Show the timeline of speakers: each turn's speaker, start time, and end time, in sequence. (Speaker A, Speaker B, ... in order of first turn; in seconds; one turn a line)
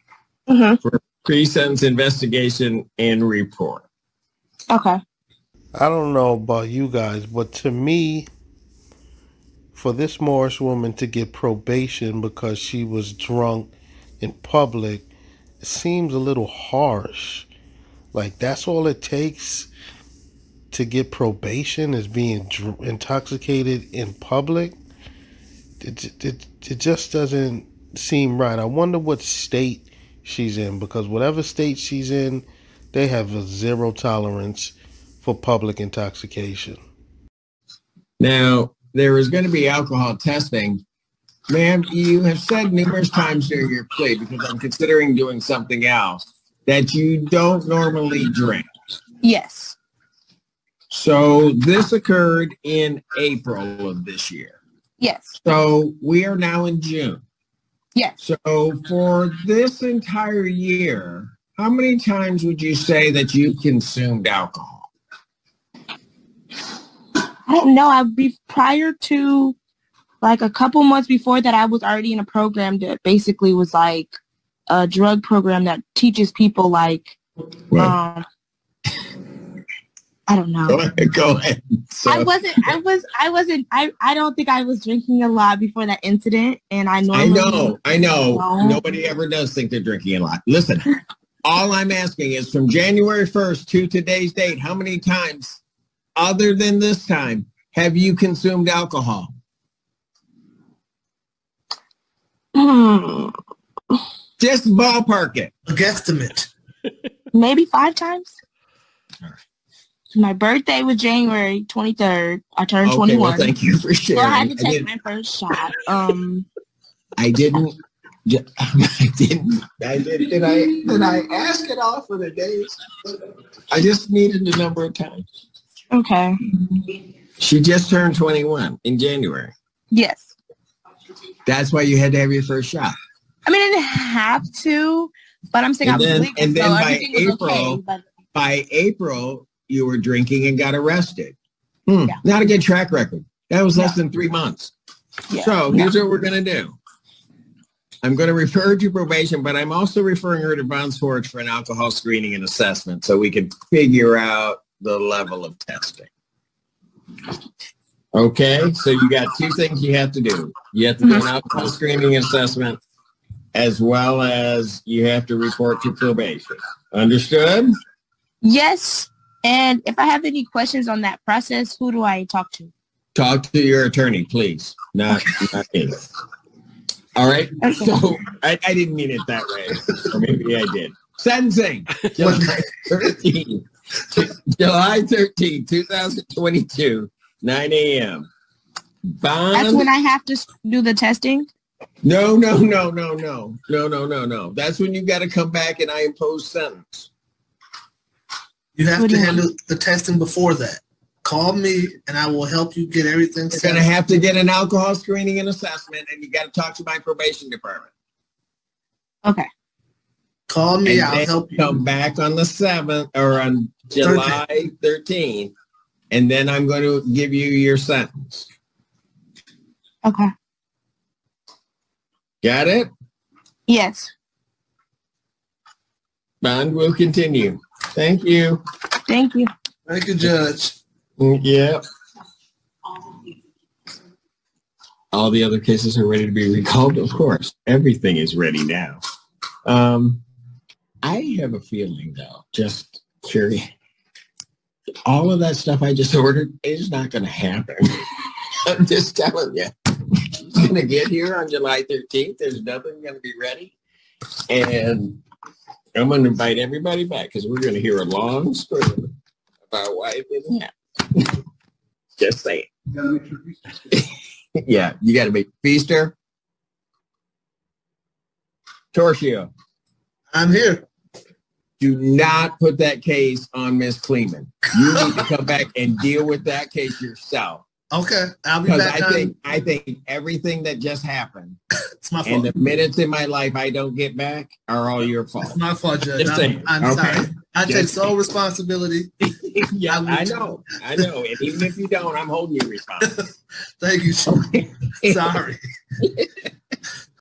Speaker A: 0.5-0.8
Speaker B: 0.8-3.9
Speaker A: 4.7-5.0
Speaker C: 5.7-8.3
Speaker C: 9.7-15.1
Speaker C: 15.6-17.5
Speaker C: 18.1-19.7
Speaker C: 20.7-24.8
Speaker C: 25.8-36.8
Speaker B: 38.2-40.8
Speaker B: 41.5-49.0
Speaker A: 49.2-49.8
Speaker B: 50.9-54.6
Speaker A: 55.0-55.4
Speaker B: 55.4-57.2
Speaker B: 58.2-64.9
Speaker A: 67.5-69.5
Speaker A: 70.2-74.1
Speaker A: 74.7-77.2
Speaker A: 77.8-78.2
Speaker A: 80.3-80.8
Speaker B: 80.7-82.3
Speaker A: 82.0-88.8
Speaker B: 87.1-95.6
Speaker B: 96.2-99.3
Speaker A: 102.5-103.3
Speaker B: 104.4-105.5
Speaker D: 105.7-106.5
Speaker A: 107.3-108.3
Speaker A: 110.1-113.5
Speaker B: 112.8-114.9
Speaker A: 114.1-116.5
Speaker B: 117.2-122.8
Speaker B: 123.7-125.2
Speaker A: 125.9-126.4
Speaker B: 127.4-129.5
Speaker A: 129.9-130.3
Speaker B: 131.4-132.9
Speaker A: 133.4-138.0
Speaker B: 135.8-137.8
Speaker B: 138.3-141.3
Speaker B: 141.9-144.7
Speaker A: 145.3-145.9
Speaker B: 145.3-146.8
Speaker B: 148.0-156.1
Speaker B: 158.1-162.8
Speaker B: 163.5-167.7
Speaker A: 168.4-172.7
Speaker B: 173.1-176.0
Speaker B: 177.2-188.3
Speaker A: 177.6-177.9
Speaker D: 182.2-182.6
Speaker B: 189.2-189.9
Speaker A: 189.5-191.5
Speaker B: 192.0-197.1
Speaker D: 198.8-203.8
Speaker A: 199.0-199.4
Speaker B: 203.5-207.9
Speaker D: 210.5-211.7
Speaker B: 210.8-215.5
Speaker D: 214.0-214.4
Speaker B: 216.1-218.5
Speaker A: 220.0-220.3
Speaker B: 222.4-222.9
Speaker A: 223.7-224.1
Speaker B: 226.4-228.6
Speaker A: 229.1-229.5
Speaker D: 229.9-230.8
Speaker B: 231.2-231.8
Speaker B: 235.1-239.0
Speaker B: 239.6-240.2
Speaker B: 241.0-243.7
Speaker B: 245.1-247.8
Speaker B: 248.7-249.7
Speaker B: 250.4-253.7
Speaker B: 254.5-255.2
Speaker B: 255.9-259.1
Speaker B: 259.7-260.6
Speaker B: 262.2-262.7
Speaker D: 263.0-263.5
Speaker B: 264.6-266.1
Speaker B: 268.9-269.5
Speaker D: 270.3-270.8
Speaker B: 271.8-277.6
Speaker D: 277.9-279.3
Speaker B: 278.6-281.6
Speaker D: 282.0-282.5
Speaker B: 282.2-285.6
Speaker D: 285.4-289.1
Speaker B: 286.2-288.1
Speaker B: 289.4-293.1
Speaker D: 289.9-290.5
Speaker D: 293.8-294.4
Speaker B: 294.3-295.4
Speaker D: 295.0-295.6